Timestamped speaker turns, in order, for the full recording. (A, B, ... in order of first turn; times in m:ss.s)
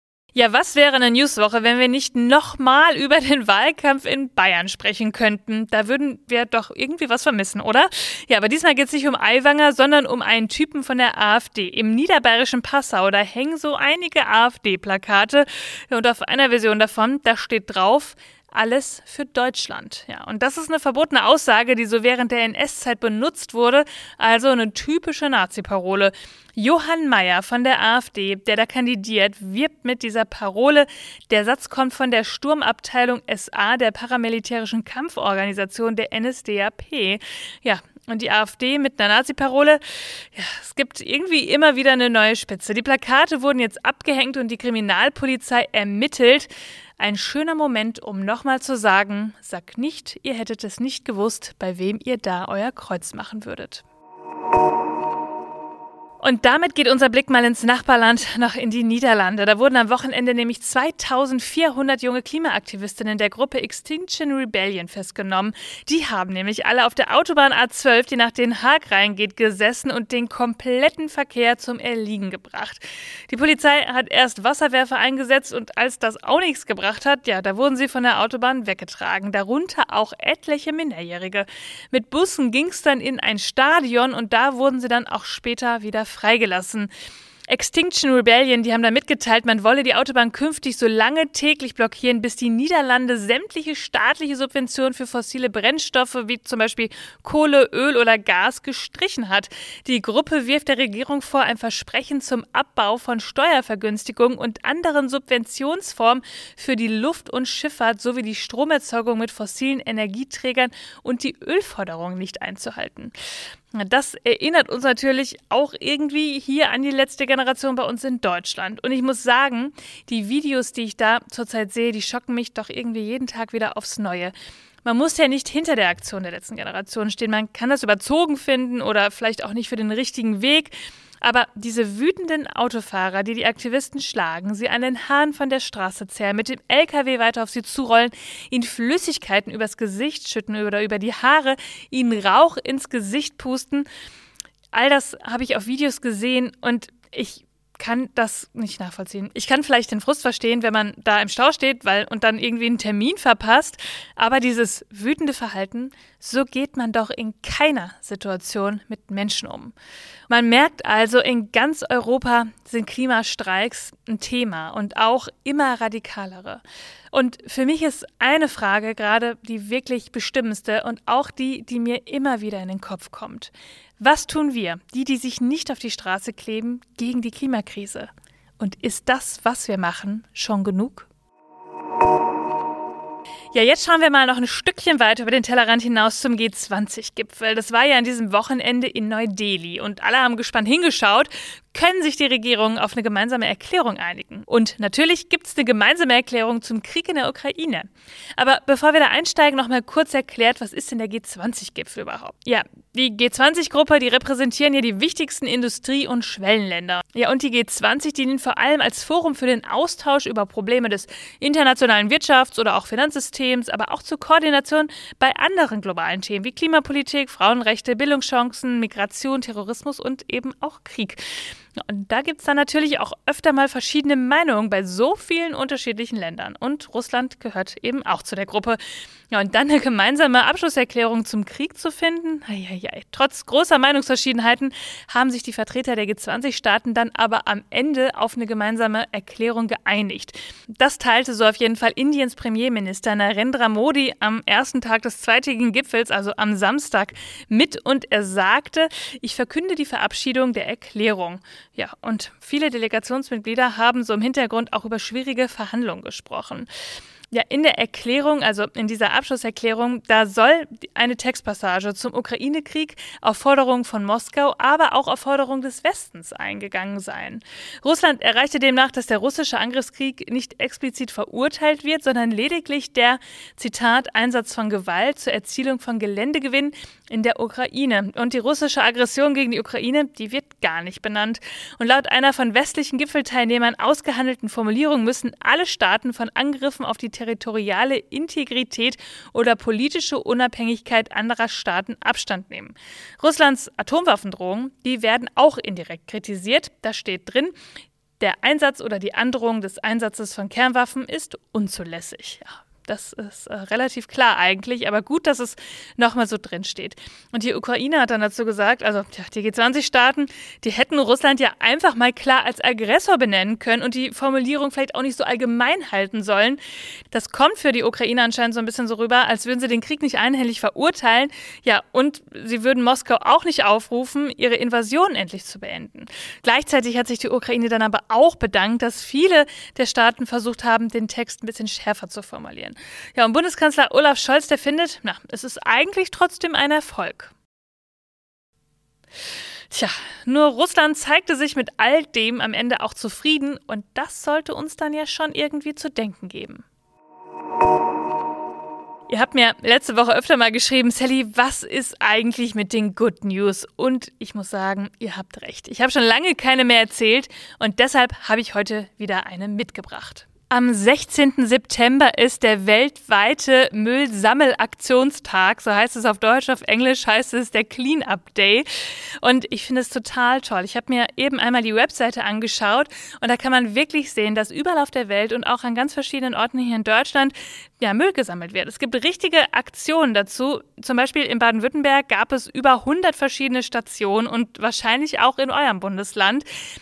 0:00.4-0:53.8 A
0:56.2-1:26.9 A
1:27.5-1:53.1 A
1:53.7-2:23.9 A
2:24.7-2:39.8 A
2:40.3-3:01.1 A
3:03.5-3:48.8 A
3:49.3-4:16.7 A
4:17.3-4:57.5 A
4:58.2-5:16.6 A
5:17.1-5:37.3 A
5:39.7-5:46.6 A
5:49.1-6:08.7 A
6:09.2-6:26.5 A